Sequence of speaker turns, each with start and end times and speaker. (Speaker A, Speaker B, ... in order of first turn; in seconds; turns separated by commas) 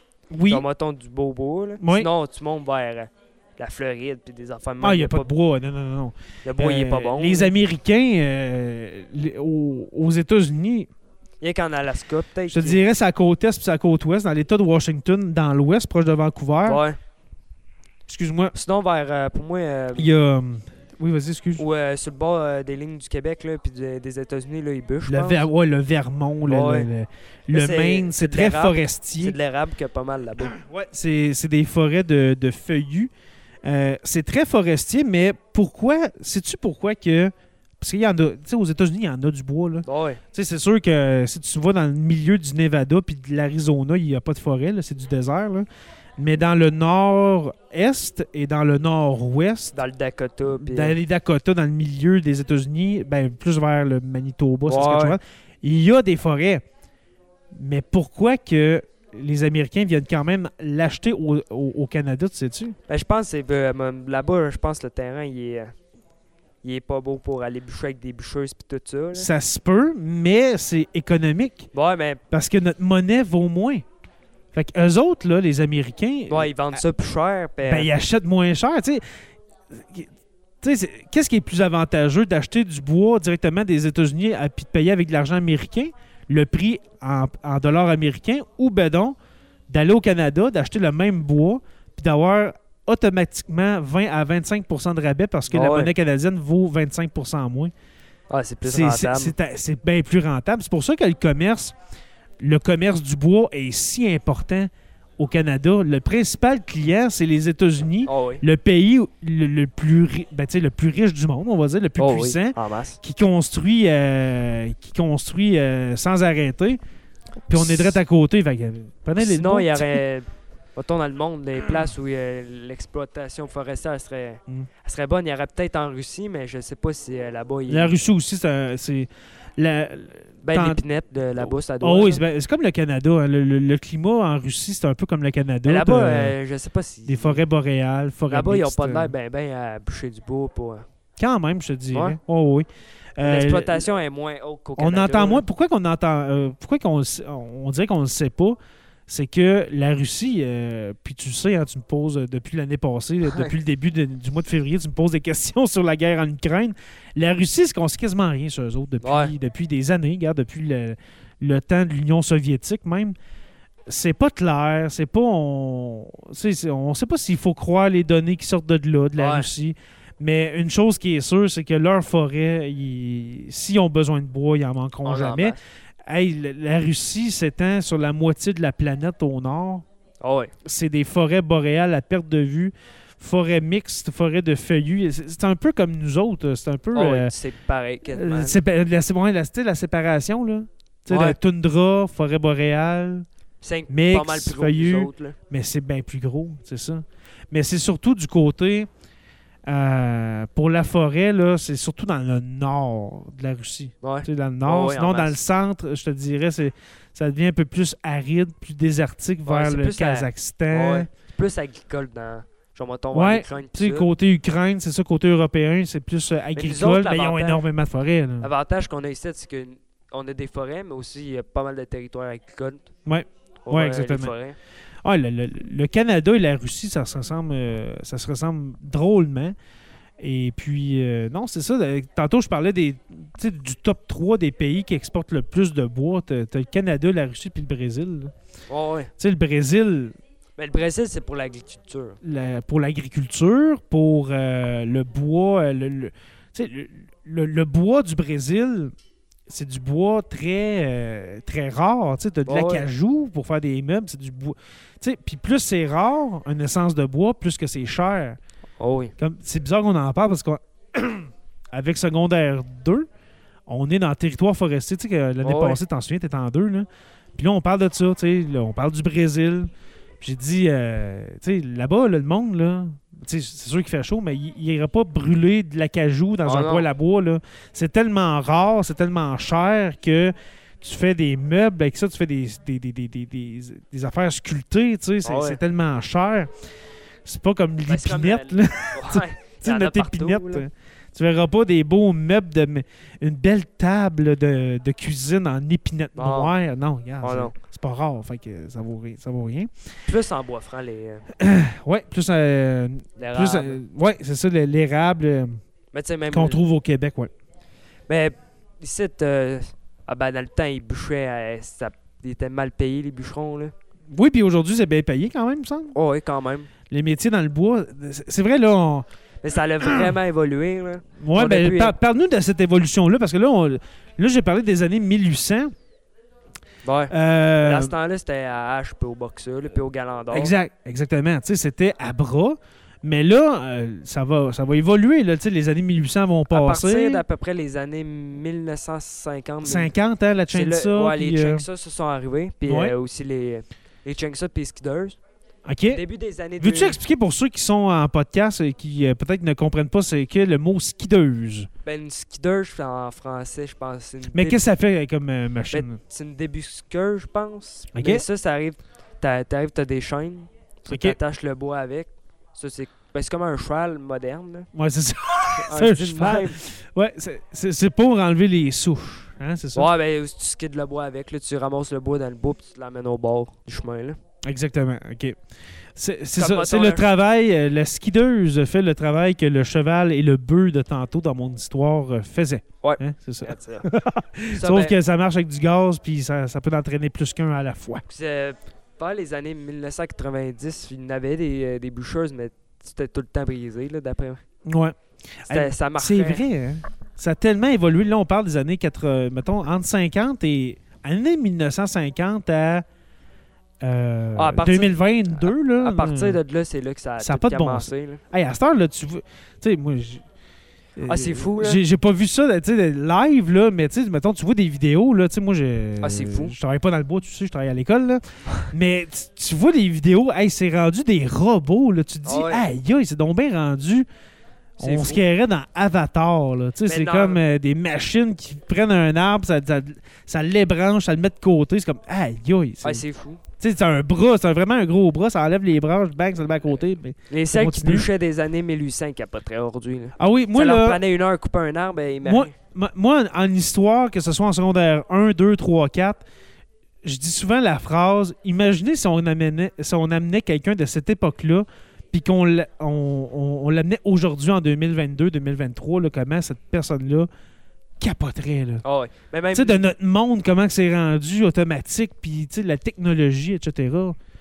Speaker A: 0.3-0.7, Speaker B: 0.5-5.3, Speaker A: 1.8-2.1, Speaker A: 4.8-10.9, Speaker B: 6.5-7.5, Speaker B: 11.4-12.8, Speaker A: 12.5-16.8, Speaker B: 16.6-17.0, Speaker A: 18.1-18.5, Speaker B: 18.6-20.1, Speaker A: 20.0-21.6, Speaker B: 21.6-25.5, Speaker A: 25.1-29.4, Speaker B: 26.5-26.9, Speaker B: 27.5-30.6, Speaker A: 30.4-33.1, Speaker A: 33.6-45.7, Speaker B: 39.9-40.2, Speaker A: 46.2-49.8, Speaker B: 49.7-51.0, Speaker A: 50.5-56.6, Speaker B: 54.7-55.2, Speaker A: 57.5-62.8, Speaker B: 62.9-65.7, Speaker B: 66.6-69.3, Speaker A: 69.1-71.7, Speaker B: 71.7-72.2, Speaker A: 72.3-73.8, Speaker A: 74.5-76.8, Speaker B: 76.3-77.9, Speaker A: 77.6-79.0, Speaker A: 79.7-80.1, Speaker A: 80.6-89.2, Speaker A: 89.7-97.7, Speaker B: 95.5-95.9, Speaker B: 98.3-99.3, Speaker A: 98.6-101.8, Speaker A: 102.4-116.8, Speaker B: 108.0-108.4, Speaker B: 112.0-113.0, Speaker A: 117.5-120.0, Speaker B: 117.5-118.0, Speaker B: 119.2-128.0, Speaker A: 127.7-130.8, Speaker B: 130.4-132.2, Speaker A: 131.4-136.3, Speaker B: 135.7-137.4, Speaker A: 137.1-139.1, Speaker B: 138.3-140.8, Speaker A: 141.2-143.8, Speaker B: 141.9-142.2, Speaker B: 143.2-145.4, Speaker A: 144.8-148.6, Speaker A: 149.1-163.2, Speaker B: 153.3-153.5, Speaker B: 159.0-159.3, Speaker A: 163.9-179.8, Speaker B: 169.2-169.5, Speaker B: 175.0-175.6, Speaker B: 180.2-180.5, Speaker A: 180.6-187.3, Speaker B: 186.9-188.6, Speaker A: 188.1-193.3, Speaker B: 191.1-191.4, Speaker B: 193.6-195.4, Speaker A: 193.9-198.9, Speaker A: 199.7-211.1, Speaker B: 204.0-205.4, Speaker B: 209.4-214.1, Speaker A: 213.1-218.5, Speaker B: 216.6-217.6, Speaker B: 218.4-222.9, Speaker A: 223.1-224.3, Speaker B: 223.7-224.6, Speaker A: 225.0-229.6, Speaker A: 230.2-238.3, Speaker B: 238.7-239.1, Speaker A: 239.2-240.2, Speaker B: 240.6-242.2, Speaker A: 242.2-248.9, Speaker A: 249.5-258.4, Speaker B: 252.5-252.9, Speaker B: 258.8-259.1, Speaker A: 259.2-263.1, Speaker A: 263.7-286.5, Speaker B: 265.4-265.8, Speaker B: 276.4-276.9, Speaker B: 285.2-285.6, Speaker A: 287.2-299.9, Speaker B: 287.9-290.7, Speaker B: 296.2-296.5, Speaker B: 297.2-297.6, Speaker B: 300.1-301.3, Speaker A: 301.3-305.6, Speaker B: 303.2-303.8, Speaker B: 305.9-306.6, Speaker A: 306.3-307.3, Speaker B: 308.1-313.7, Speaker A: 314.1-315.9, Speaker B: 315.9-316.7, Speaker A: 316.9-319.1, Speaker B: 319.4-322.0, Speaker A: 319.8-320.2, Speaker A: 321.2-325.7, Speaker B: 326.9-330.5, Speaker A: 327.1-327.9, Speaker A: 330.3-337.2, Speaker B: 336.5-339.9, Speaker A: 339.6-341.6, Speaker B: 340.5-345.2, Speaker A: 342.7-342.9, Speaker A: 345.7-346.0, Speaker B: 345.9-347.0, Speaker A: 346.6-351.7, Speaker B: 351.9-354.6, Speaker A: 354.3-356.0, Speaker B: 355.7-364.7, Speaker A: 357.9-358.3, Speaker A: 360.9-361.2, Speaker A: 364.7-369.9, Speaker B: 365.5-366.6, Speaker B: 369.8-374.2, Speaker A: 374.4-375.4, Speaker A: 376.0-388.0, Speaker B: 376.4-377.1, Speaker B: 382.8-383.9, Speaker B: 384.5-384.9, Speaker B: 388.1-394.4, Speaker A: 394.6-402.9, Speaker B: 395.5-396.4, Speaker A: 403.8-406.4, Speaker B: 404.4-408.2, Speaker A: 407.2-410.2, Speaker A: 411.0-424.1, Speaker B: 411.1-411.8, Speaker B: 416.0-416.5, Speaker B: 422.2-422.7, Speaker A: 424.8-433.0, Speaker B: 424.8-425.2, Speaker B: 426.9-427.4, Speaker B: 432.8-433.4, Speaker A: 433.6-438.1, Speaker B: 437.3-442.5, Speaker A: 440.2-441.0, Speaker A: 442.2-446.2, Speaker A: 447.0-457.3, Speaker A: 458.0-458.8, Speaker B: 458.8-459.8, Speaker A: 459.5-464.1